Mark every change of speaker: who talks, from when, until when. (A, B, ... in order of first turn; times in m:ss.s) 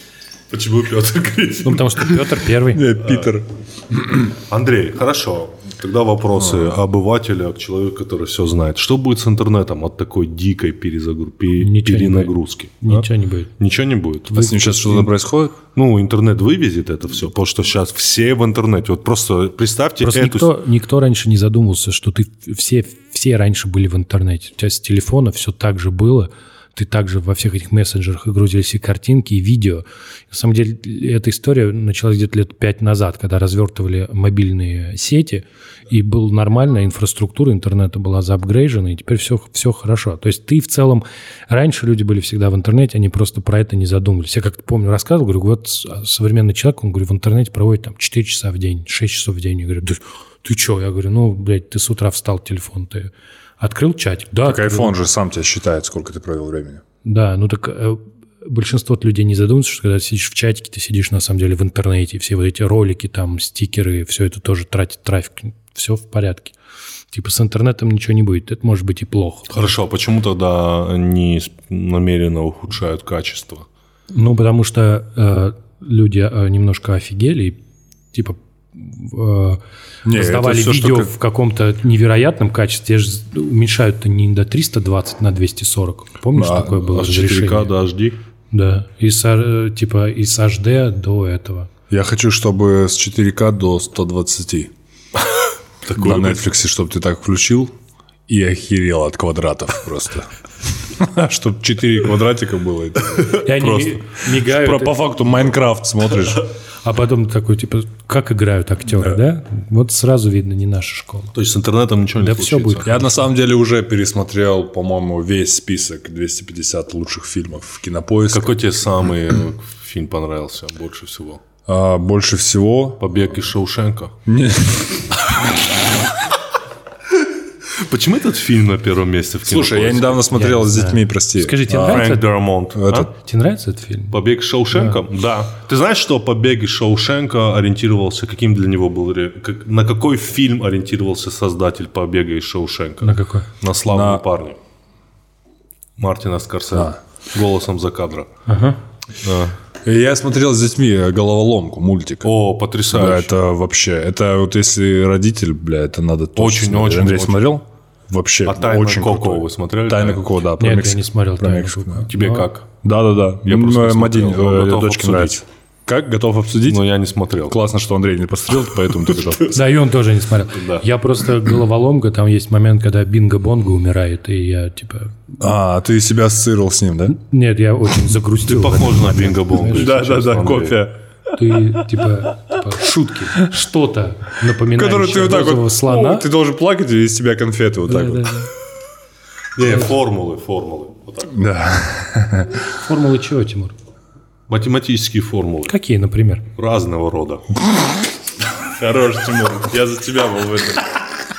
0:00.5-0:02.3 A
0:01.6-0:02.9 B
0:02.7-0:04.2 C
0:03.0-0:03.3 A
0:04.3-0:13.1 A
0:06.4-0:06.7 C
0:11.6-0:13.5 B
0:13.6-0:14.5 A
0:14.3-0:15.1 B
0:14.3-0:15.6 C
0:15.7-0:20.5 A
0:20.0-0:54.9 B
0:54.4-0:56.8 C
0:57.0-1:06.6 B
1:07.1-1:09.5 B
1:09.5-1:13.6 A
1:14.1-1:17.6 B
1:18.1-1:19.6 B
1:20.0-1:21.1 C
1:20.1-1:27.7 B
1:26.3-1:26.9 C
1:26.8-1:28.2 A
1:28.5-1:31.7 B
1:31.9-1:34.7 C
1:35.8-1:36.4 A
1:36.0-1:37.7 C
1:38.3-1:40.3 C
1:40.8-1:43.8 C
1:43.3-1:43.9 A
1:43.4-1:44.9 B
1:44.3-1:46.4 C
1:46.8-1:51.3 B
1:51.3-1:52.9 A
1:52.2-1:53.2 B
1:52.8-1:58.6 C
1:58.3-2:01.4 A
2:01.6-2:03.2 C
2:03.0-2:04.1 A
2:04.3-2:05.6 C
2:07.8-2:10.2 A
2:09.4-2:12.2 C
2:10.3-2:12.2 B
2:11.8-2:13.1 A
2:12.7-2:13.1 C
2:13.1-2:14.1 B
2:14.1-2:24.6 A
2:14.7-2:15.0 B
2:23.0-2:23.5 B
2:23.9-2:24.2 C
2:26.0-2:28.3 A
2:28.5-2:28.8 B
2:29.2-2:29.6 A
2:29.8-2:32.3 C
2:32.2-2:33.3 A
2:32.9-2:42.1 C
2:36.4-2:37.6 A
2:38.4-2:40.2 A
2:40.6-2:42.5 B
2:42.1-2:42.7 A
2:42.8-2:46.8 C
2:43.4-2:45.4 A
2:46.6-2:47.6 A
2:47.5-2:49.6 C
2:49.5-2:55.3 B
2:50.5-2:50.8 A
2:55.4-2:57.2 C
2:57.1-2:59.9 B
2:58.4-3:00.8 A
2:59.7-3:01.0 C
3:01.3-3:06.3 B
3:04.7-3:08.5 C
3:07.9-3:08.5 B
3:09.6-3:11.4 A
3:11.3-3:12.6 C
3:12.7-3:13.8 B
3:14.5-3:15.7 A
3:15.7-3:16.4 B
3:16.6-3:17.5 A
3:18.7-3:20.8 C